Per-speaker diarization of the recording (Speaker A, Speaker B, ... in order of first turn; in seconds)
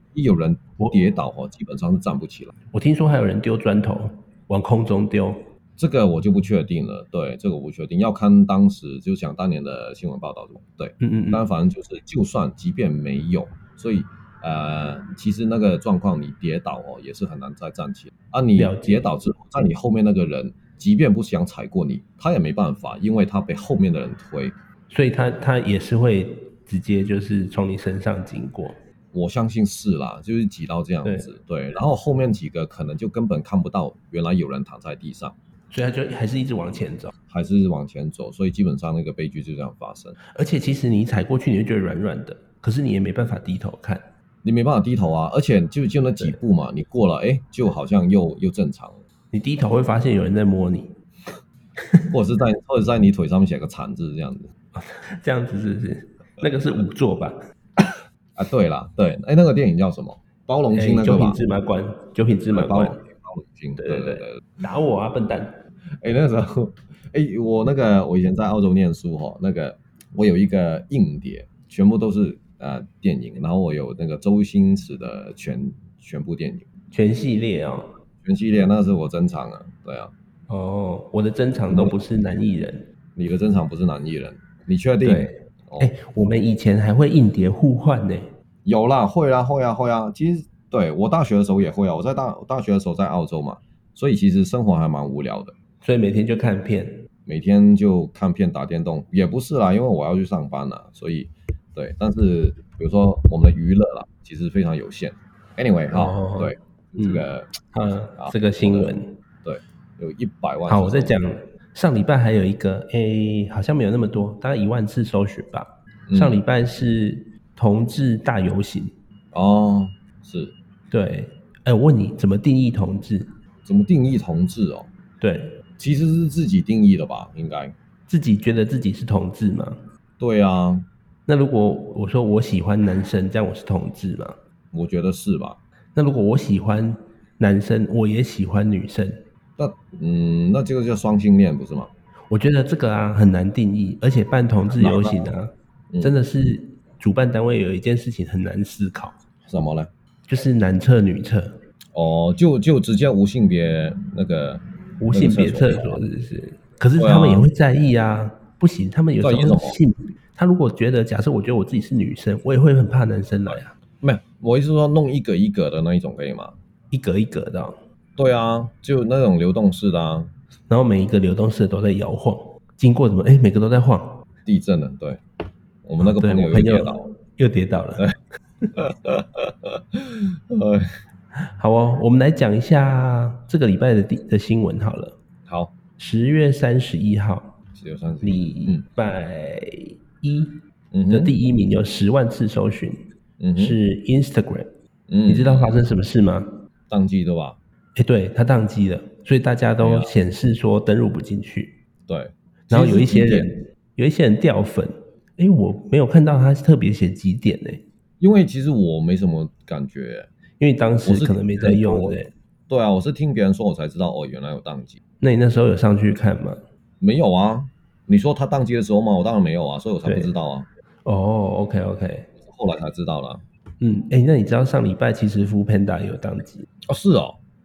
Speaker A: 0.1-2.5, 5.8-24.5, 29.1-35.4, 37.3-40.2, 44.4-49.0, 52.1-54.5, 58.4-61.4, 62.5-64.4, 66.0-76.6, 78.2-80.1, 81.7-82.0, 83.2-85.9, 88.7-95.5, 97.3-107.5, 108.2-111.2, 116.1-116.4, 119.3-120.5, 123.7-124.9, 125.8-127.7, 130.2-130.8, 134.7-135.6, 139.6-141.9, 144.7-145.3, 149.5-149.9, 151.9-156.0, 157.0-157.5, 159.2-159.8, 163.5-166.6, 168.2-170.3, 174.4-175.2, 175.8-177.1, 178.8-180.9, 185.4-185.7, 187.7-188.8, 190.9-191.3, 193.4-193.8, 195.1-195.8, 196.9-197.6, 199.8-200.1, 202.1-203.5, 208.2-210.3, 211.0-212.2, 212.7-215.0, 217.0-220.7, 222.4-223.4, 226.9-227.4
Speaker B: 0.8-1.1, 2.7-5.5, 11.0-11.5, 18.6-19.1, 24.9-28.8, 31.0-31.3, 35.7-37.1, 40.3-44.1, 49.3-50.9, 51.8-52.1, 54.8-57.4, 60.7-63.0, 63.8-65.6, 76.9-77.9, 80.5-82.8, 85.0-88.3, 95.8-97.0, 105.9-109.2, 110.7-118.9, 120.9-123.3, 125.2-125.5, 128.1-129.8, 131.3-134.4, 135.9-139.2, 142.3-149.2, 150.3-151.6, 155.0-163.8, 166.9-167.8, 170.7-174.2, 176.0-178.1, 181.6-185.2, 186.0-187.6, 188.2-190.6, 191.1-193.0, 193.6-194.7, 195.3-196.5, 197.9-201.8, 202.7-207.8, 210.6-212.3, 215.2-216.6, 220.0-220.3, 221.0-222.3, 223.8-226.7